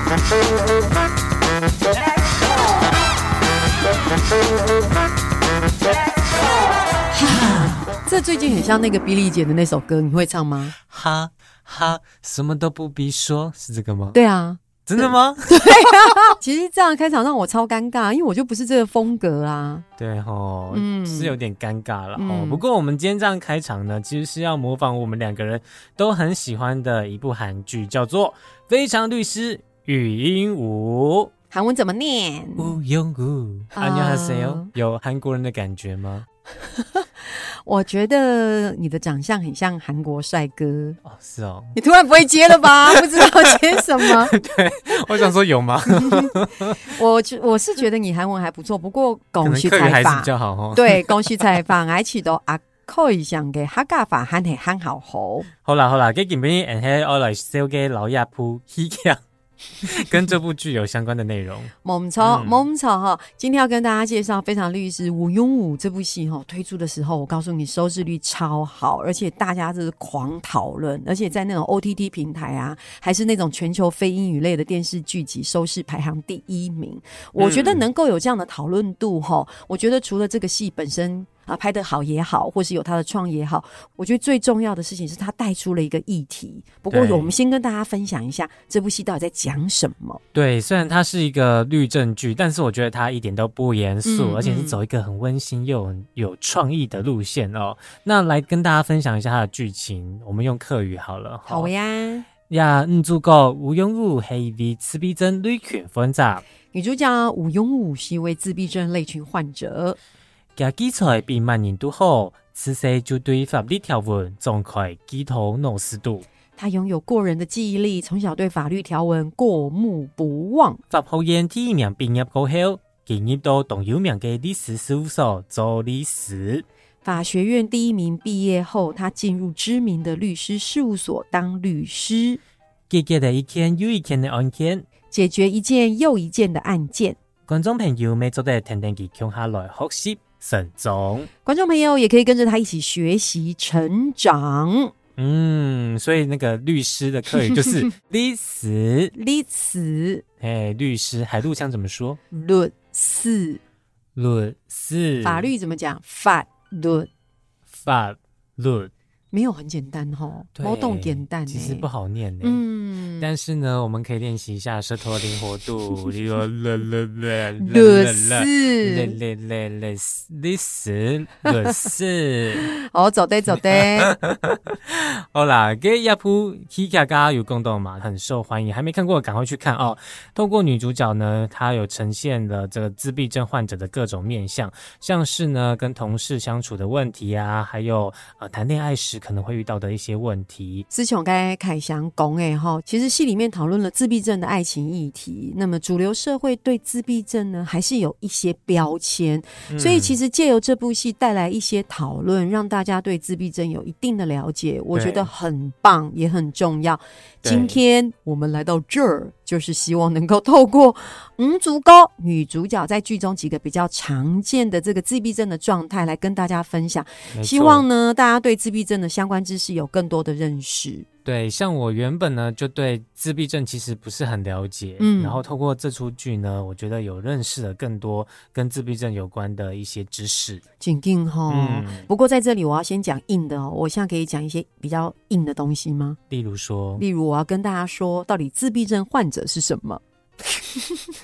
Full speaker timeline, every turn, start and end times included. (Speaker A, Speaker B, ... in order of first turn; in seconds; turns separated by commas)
Speaker A: 7.1-10.7, Speaker B: 7.2-7.8, Speaker B: 10.8-14.2, Speaker A: 14.1-19.8, Speaker B: 14.8-16.1, Speaker B: 20.0-31.3, Speaker A: 20.7-21.4, Speaker A: 22.1-22.6, Speaker A: 31.5-32.8, Speaker B: 32.6-36.2, Speaker A: 33.7-34.7, Speaker A: 36.8-37.0, Speaker A: 37.6-41.0, Speaker B: 41.0-41.7, Speaker A: 41.7-44.3, Speaker B: 42.6-43.3, Speaker B: 44.0-46.9, Speaker A: 45.9-46.3, Speaker A: 46.8-55.5, Speaker B: 49.4-51.5, Speaker B: 55.6-59.2, Speaker B: 59.8-62.6, Speaker A: 61.8-90.2, Speaker B: 77.4-77.8, Speaker B: 86.9-87.3, Speaker B: 90.3-101.7, Speaker A: 94.0-94.8, Speaker A: 101.5-102.2, Speaker B: 102.5-106.4, Speaker A: 106.7-110.0, Speaker B: 110.5-116.2, Speaker A: 116.6-120.8, Speaker B: 120.9-126.6, Speaker A: 127.0-132.4, Speaker B: 132.9-134.9, Speaker A: 135.1-137.2, Speaker B: 137.5-141.3, Speaker A: 141.4-144.9, Speaker B: 145.2-149.1, Speaker A: 149.1-150.2, Speaker B: 150.4-152.2, Speaker A: 152.3-153.6, Speaker B: 154.2-155.5, Speaker A: 155.2-157.1, Speaker B: 157.7-158.9, Speaker A: 159.3-161.9, Speaker B: 160.6-162.6, Speaker A: 162.4-163.3, Speaker B: 163.2-172.7, Speaker A: 167.6-169.2, Speaker A: 172.8-174.1, Speaker B: 173.7-190.8, Speaker A: 190.9-221.1, Speaker B: 199.7-200.2, Speaker B: 204.9-205.3, Speaker B: 207.4-207.8, Speaker B: 217.3-217.8, Speaker B: 221.2-230.6, Speaker A: 225.0-225.4, Speaker A: 230.8-236.2, Speaker B: 231.5-232.1, Speaker B: 236.3-237.0, Speaker A: 237.0-240.0